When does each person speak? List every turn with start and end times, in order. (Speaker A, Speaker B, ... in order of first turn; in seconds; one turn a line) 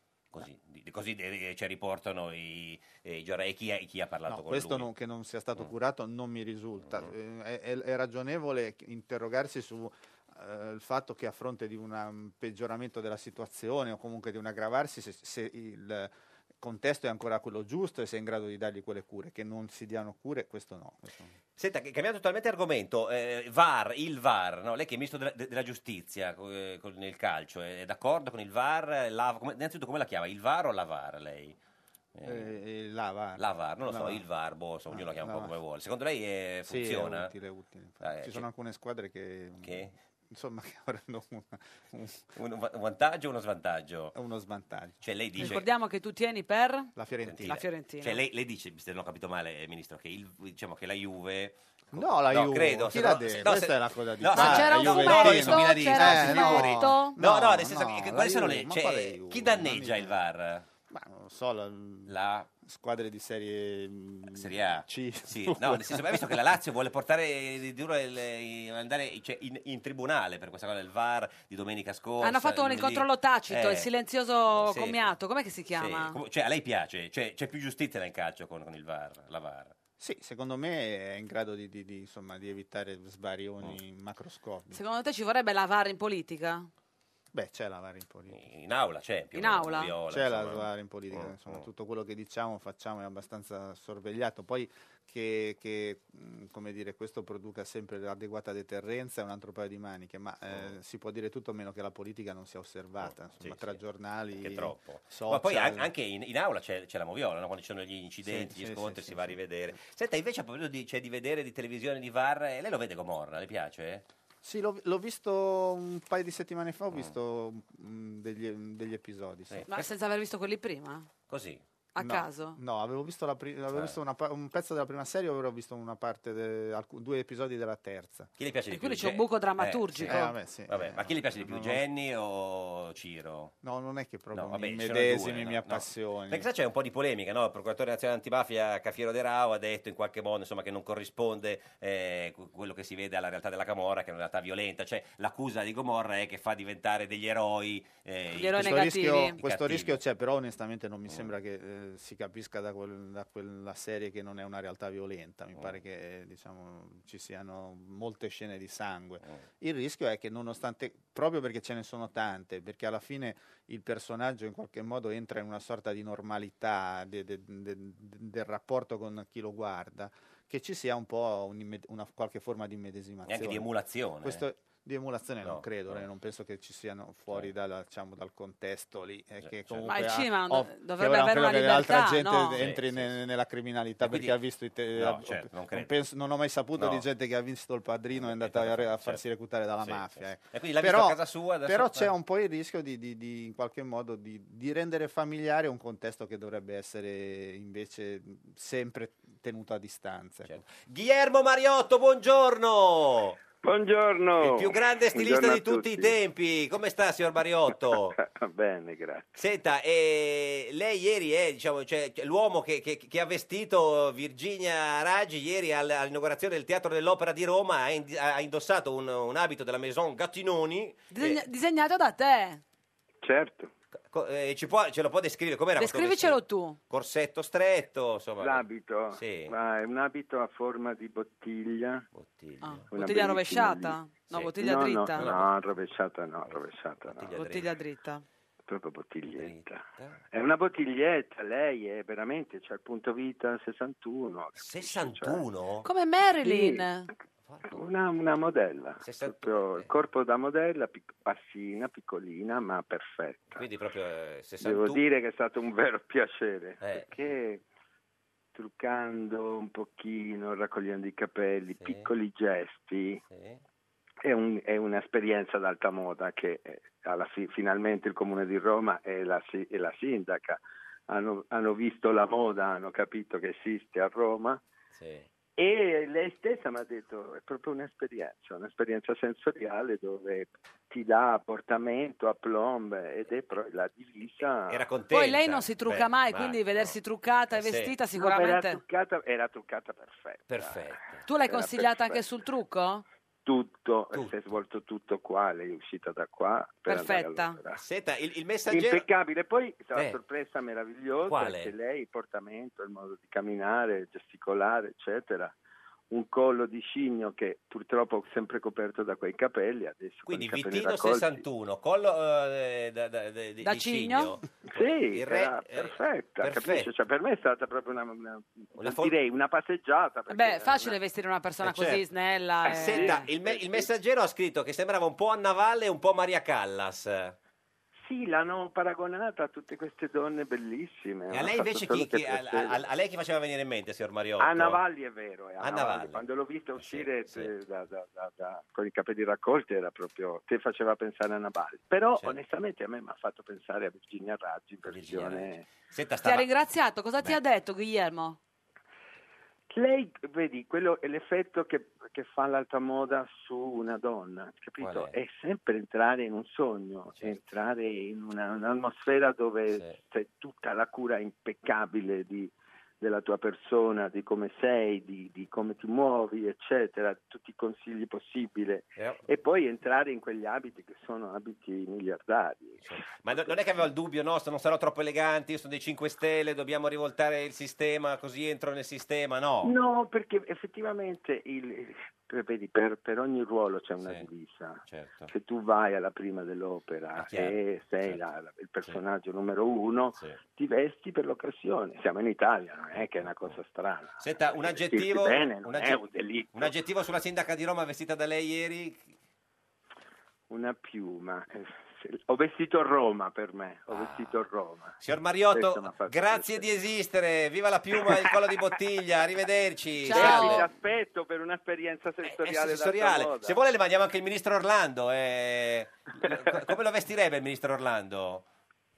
Speaker A: 0.3-4.9
Speaker B: 4.3-21.4
Speaker A: 6.8-7.1
Speaker A: 21.6-31.6
Speaker A: 32.1-32.5
Speaker B: 32.2-34.2
Speaker A: 33.4-37.3
Speaker B: 34.9-35.5
Speaker B: 36.7-42.2
Speaker A: 38.0-38.5
Speaker A: 39.6-39.9
Speaker A: 42.4-44.1
Speaker B: 44.1-45.5
Speaker A: 45.0-45.6
Speaker C: 45.4-46.9
Speaker B: 47.0-47.6
Speaker A: 47.2-60.7
Speaker C: 47.5-48.2
Speaker B: 51.9-60.1
Speaker C: 54.3-57.2
Speaker B: 60.9-62.1
Speaker A: 62.1-62.5
Speaker B: 62.6-66.1
Speaker A: 64.3-73.9
Speaker C: 72.2-76.2
Speaker A: 74.5-75.1
Speaker A: 75.8-79.7
Speaker B: 80.0-84.8
Speaker C: 84.7-86.7
Speaker B: 87.3-88.4
Speaker A: 88.3-91.6
Speaker C: 89.3-89.9
Speaker B: 90.1-105.9
Speaker A: 100.5-100.7
Speaker A: 103.0-103.8
Speaker A: 104.3-114.0
Speaker B: 108.3-109.4
Speaker B: 114.4-119.7
Speaker A: 119.5-119.9
Speaker C: 119.7-121.1
Speaker A: 121.3-121.6
Speaker C: 122.0-122.6
Speaker B: 122.0-128.3
Speaker A: 128.4-133.6
Speaker C: 128.7-130.3
Speaker B: 130.1-131.8
Speaker B: 133.6-136.5
Speaker A: 134.3-148.9
Speaker C: 148.3-149.4
Speaker B: 148.5-173.7
Speaker A: 149.4-150.0
Speaker A: 151.1-151.3
Speaker A: 173.3-174.4
Speaker B: 174.2-200.6
Speaker A: 175.4-176.1
Speaker A: 179.4-180.1
Speaker C: 179.8-182.6
Speaker A: 182.6-183.2
Speaker A: 184.0-184.4
Speaker A: 184.9-185.9
Speaker A: 186.8-187.1
Speaker A: 188.1-189.2
Speaker A: 189.8-192.1
Speaker A: 200.5-203.4
Speaker D: 203.6-206.1
Speaker A: 204.4-208.2
Speaker D: 208.1-209.4
Speaker A: 209.4-221.4
Speaker C: 221.1-222.6
Speaker D: 223.2-223.7
Speaker A: 224.1-229.6
Speaker C: 225.8-226.8
Speaker D: 228.4-232.1
Speaker A: 232.1-232.9
Speaker C: 232.6-235.3
Speaker D: 232.9-234.0
Speaker A: 234.3-234.6
Speaker D: 234.5-237.3
Speaker A: 235.2-235.5
Speaker A: 236.5-237.8
Speaker C: 237.3-238.2
Speaker D: 238.7-245.4
Speaker A: 239.3-240.2
Speaker A: 244.6-245.9
Speaker C: 245.8-247.1
Speaker D: 246.4-246.8
Speaker A: 247.5-247.8
Speaker D: 247.7-253.6
Speaker A: 249.0-249.9
Speaker A: 253.5-255.0
Speaker D: 254.6-257.6
Speaker A: 256.8-257.3
Speaker D: 258.6-263.2
Speaker A: 261.8-262.1
Speaker A: 263.3-263.6
Speaker D: 264.2-274.6
Speaker A: 274.9-275.3
Speaker D: 275.6-284.8
Speaker A: 284.7-287.0
Speaker C: 285.1-288.8
Speaker A: 287.5-288.0
Speaker D: 288.1-292.2
Speaker A: 290.5-291.2
Speaker C: 291.3-293.0
Speaker D: 293.4-297.8
Speaker C: 296.9-297.6
Speaker A: 297.8-299.1
Speaker D: 298.7-305.5
Speaker A: 299.9-300.2
Speaker A: 301.2-301.7
Speaker D: 306.1-311.4
Speaker A: 310.3-316.9
Speaker C: 313.6-314.4
Speaker D: 314.7-321.0
Speaker A: 318.8-319.2
Speaker C: 320.3-323.3
Speaker A: 322.6-327.4
Speaker D: 322.7-323.9
Speaker D: 328.1-332.8
Speaker A: 331.3-334.8
Speaker D: 334.4-345.6
Speaker A: 335.6-336.3
Speaker A: 336.8-337.5
Speaker A: 344.8-346.5
Speaker C: 346.2-348.4
Speaker D: 349.7-373.5
Speaker A: 354.8-355.1
Speaker A: 357.1-357.4
Speaker A: 359.7-360.0
Speaker A: 369.0-369.2
Speaker A: 372.8-379.8
Speaker D: 379.6-396.7
Speaker A: 384.0-384.3
Speaker A: 384.9-385.3
Speaker A: 387.1-388.2
Speaker A: 392.9-393.6
Speaker A: 394.2-399.1
Speaker D: 400.5-405.0
Speaker A: 403.9-404.5
Speaker A: 405.0-410.7
Speaker D: 405.5-406.7
Speaker C: 410.1-410.6
Speaker D: 410.1-413.6
Speaker A: 412.2-418.4